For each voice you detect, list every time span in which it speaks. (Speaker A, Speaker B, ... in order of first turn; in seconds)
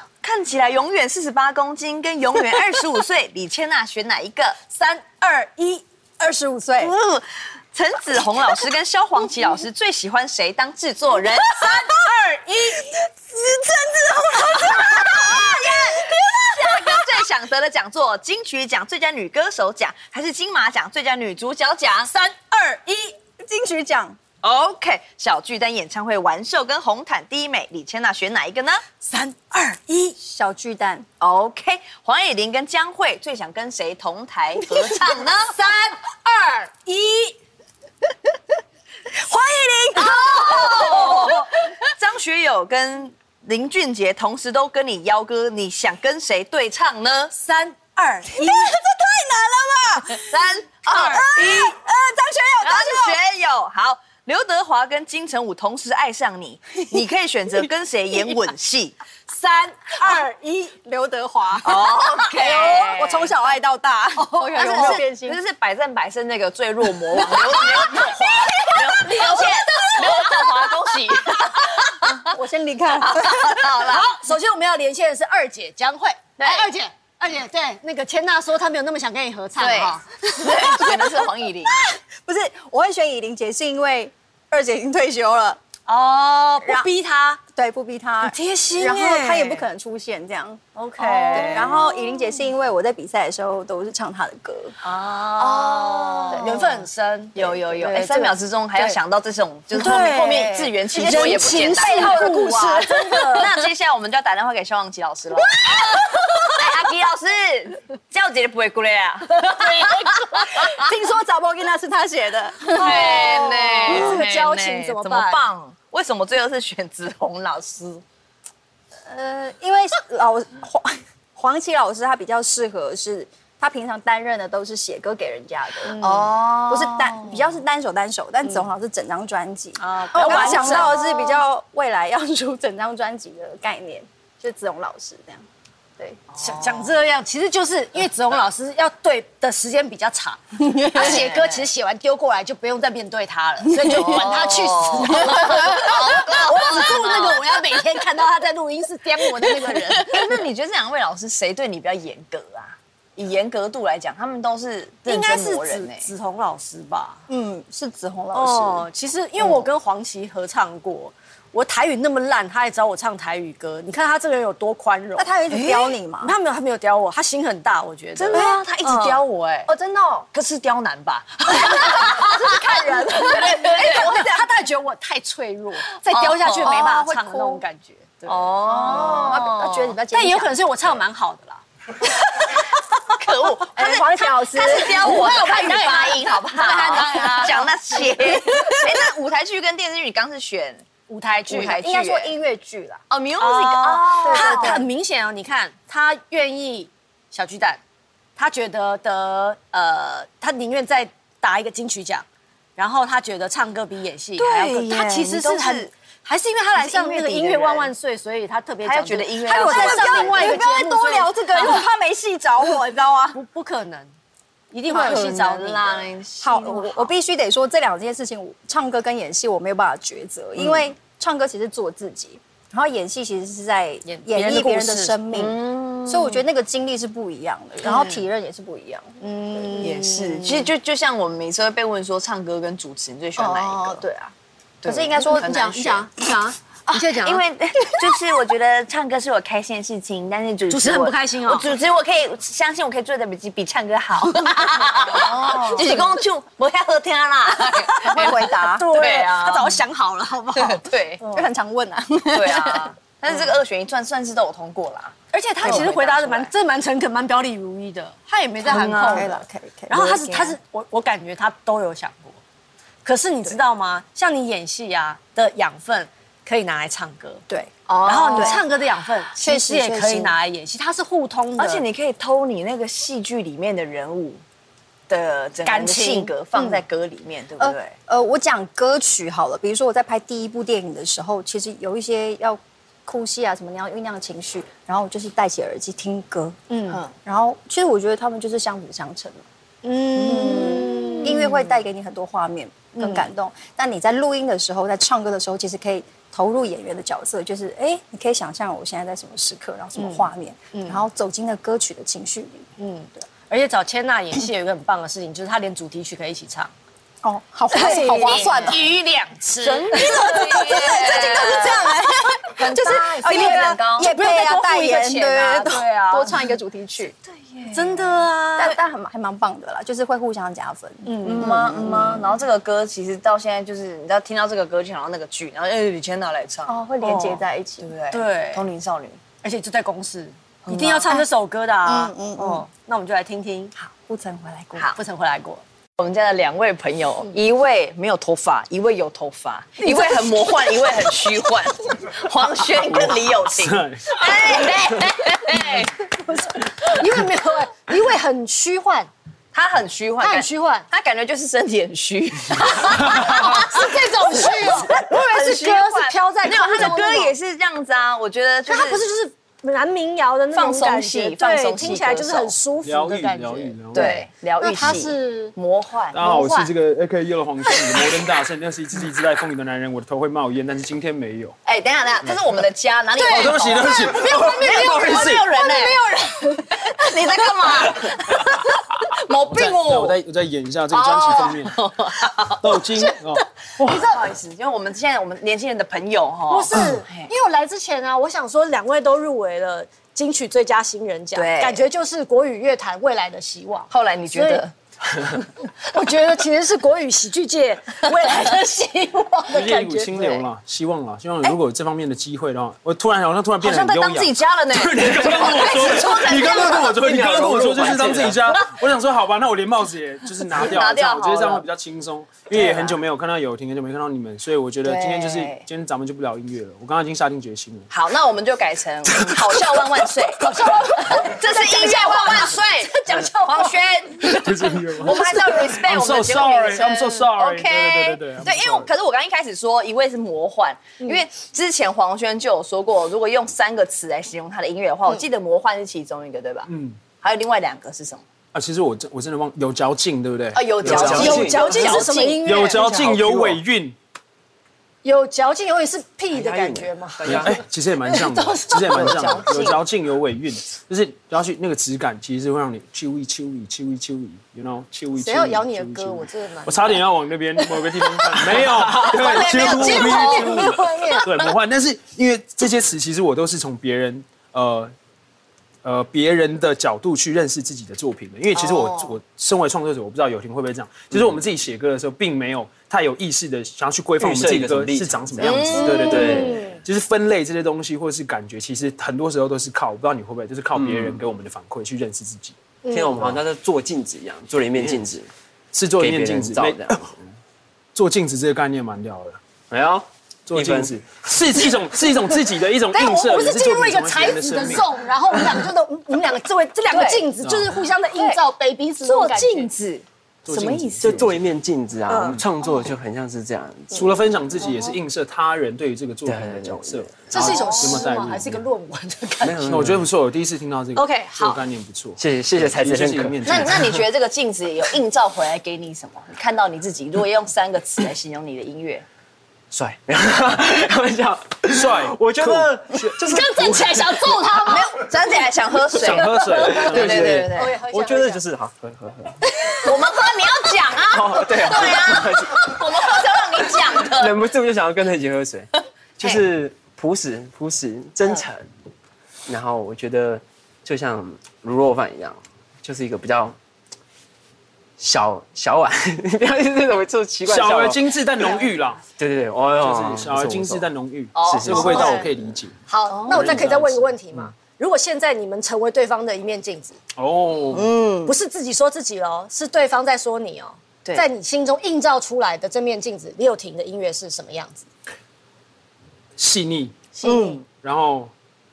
Speaker A: 0.2-4.6, 6.8-11.7, 14.8-22.1, 24.4-28.8, 31.2-35.6, 39.9-47.3, 50.1-51.8, 52.6-59.0, 61.6-63.3, 64.5-72.2, 73.0-74.1, 76.4-76.7, 79.6-81.8, 91.2-91.8, 95.4-96.8, 97.3-110.8, 112.7-118.0, 126.0-127.5, 130.1-131.1, 136.3-136.9, 140.9-141.7, 143.8-147.5, 149.7-156.1, 165.5-165.9, 168.2-169.7, 170.3-174.3, 176.1-177.6, 178.2-179.9, 183.1-190.8, 191.5-192.3, 193.1-194.8, 204.4-205.9, 206.7-207.9, 208.8-210.6, 214.9-217.1, 220.6-220.9, 225.3-226.4, 229.8-234.0, 234.8-236.1, 236.9-249.8, 250.6-251.3, 252.3-256.5, 258.6-259.3, 267.9-268.6, 271.6-274.4, 275.1-277.9, 290.2-291.5, 307.8-308.8, 309.7-314.1, 317.2-318.2, 321.2-329.2, 330.6-331.1, 333.8-334.1, 334.6-335.0, 336.0-346.0, 349.5-359.1, 360.5-362.5, 363.9-366.2, 371.6-376.0, 376.8-380.2, 380.9-382.8, 383.9-387.3, 391.3-391.8, 393.9-394.7, 403.6-406.9, 410.5-411.6, 412.5-413.0, 414.8-415.6, 417.9-436.7, 437.2-438.2, 440.5-442.9, 448.9-449.8, 459.0-461.5, 468.5-469.1, 475.4-476.4, 496.9-497.3, 499.0-501.3, 504.6-504.9, 507.4-508.1, 513.4-519.0, 524.6-527.8, 529.8-534.4, 551.3-552.3, 553.1-553.7, 557.7-558.3, 567.2-567.6
Speaker B: 4.7-5.8, 11.6-13.0, 22.1-23.1, 29.0-30.1, 35.4-37.4, 40.0-41.4, 47.3-48.7, 59.3-60.7, 64.2-65.0, 69.0-70.5, 73.8-81.0, 85.9-87.4, 88.2-89.7, 90.7-91.7, 94.8-99.0, 99.7-103.5, 109.5-110.0, 112.7-115.5, 125.8-126.3, 129.8-131.0, 136.4-150.3, 155.1-157.2, 158.3-165.3, 166.2-169.1, 171.6-179.4, 180.1-181.6, 184.7-188.7, 191.1-191.8, 193.4-197.8, 198.3-202.2, 202.8-211.8, 213.3-214.1, 214.7-216.1, 224.0-225.2, 227.8-228.2, 229.2-230.7, 235.2-237.4, 240.7-241.7, 244.5-246.0, 248.0-251.4, 255.3-262.4, 263.0-267.4, 268.0-271.8, 275.6-276.3, 286.7-287.0, 289.8-291.7, 293.0-293.3, 300.0-301.0, 302.8-306.7, 307.7-311.9, 312.8-316.5, 317.7-318.8, 321.0-322.2, 327.0-327.4, 328.1-328.6, 329.4-333.7, 334.9-335.6, 339.8-340.5, 344.5-349.1, 350.2-350.9, 352.6-357.3, 358.7-365.5, 366.2-366.7, 367.7-368.1, 373.2-378.5, 383.8-384.2, 386.5-394.6, 395.8-400.4, 420.4-425.5, 441.0-443.1, 445.0-449.7, 455.1-457.0, 457.6-461.3, 475.8-476.8, 482.8-483.3, 492.9-499.7, 502.1-502.4, 507.3-509.6, 510.9-511.6, 523.2-525.0, 527.5-528.4, 529.5-529.9, 551.7-552.2, 552.9-557.0, 558.2-564.9, 567.1-567.6
Speaker C: 6.2-6.9, 11.6-12.1, 12.7-17.1, 23.3-24.2, 30.2-31.1, 39.1-41.3, 48.2-50.3, 50.9-53.2, 59.9-65.4, 67.1-70.4, 72.0-73.6, 80.7-81.0, 81.7-85.6, 86.6-86.9, 87.5-94.7, 96.3-96.6, 100.9-103.2, 105.5-106.5, 109.6-114.2, 119.0-126.0, 126.7-135.4, 140.6-141.2, 145.2-145.7, 157.3-158.9, 165.2-166.3, 168.3-169.1, 169.7-170.3, 171.7-172.6, 173.2-174.2, 176.8-177.2, 178.6-180.6, 183.7-185.8, 186.9-187.5, 188.2-188.7, 191.5-193.0, 194.2-194.8, 209.5-213.4, 216.4-230.0, 233.4-234.3, 234.8-235.9, 245.1-245.9, 248.0-249.0, 251.2-252.9, 255.6-255.9, 258.7-260.5, 268.3-268.6, 269.4-270.3, 276.5-276.8, 277.6-286.6, 287.1-289.5, 290.1-302.7, 307.2-308.8, 309.6-317.1, 318.6-322.3, 326.6-327.9, 331.8-332.6, 334.1-334.9
Speaker D: 342.9-344.7, 362.8-364.2, 366.1-371.6, 373.2-375.4, 379.5-381.8, 382.6-384.1, 399.5-417.9, 424.3-428.9, 436.7-437.0, 438.5-443.9, 447.2-464.9, 465.8-482.6, 483.1-483.4, 484.8-485.0, 485.7-487.1, 487.9-489.4, 490.5-494.9, 497.4-497.7, 500.4-501.4, 503.9-508.6, 509.6-513.9, 521.7-524.1, 525.9-527.5, 547.5-549.0, 549.8-552.8, 553.3-554.4, 557.1-557.9, 566.4-567.0, 567.7-568.3
Speaker E: 405.2-408.6, 440.8-442.1, 442.8-443.6, 446.3-447.6, 458.4-459.6, 474.2-476.7, 480.7-481.2, 482.9-485.3, 486.0-487.1, 489.7-490.9, 501.0-504.1, 506.2-507.6, 509.4-510.1, 512.2-513.9, 519.7-523.5, 526.5-529.4, 531.1-532.8, 534.0-538.7, 539.5-543.5, 545.0-548.0, 549.1-550.9, 551.4-552.3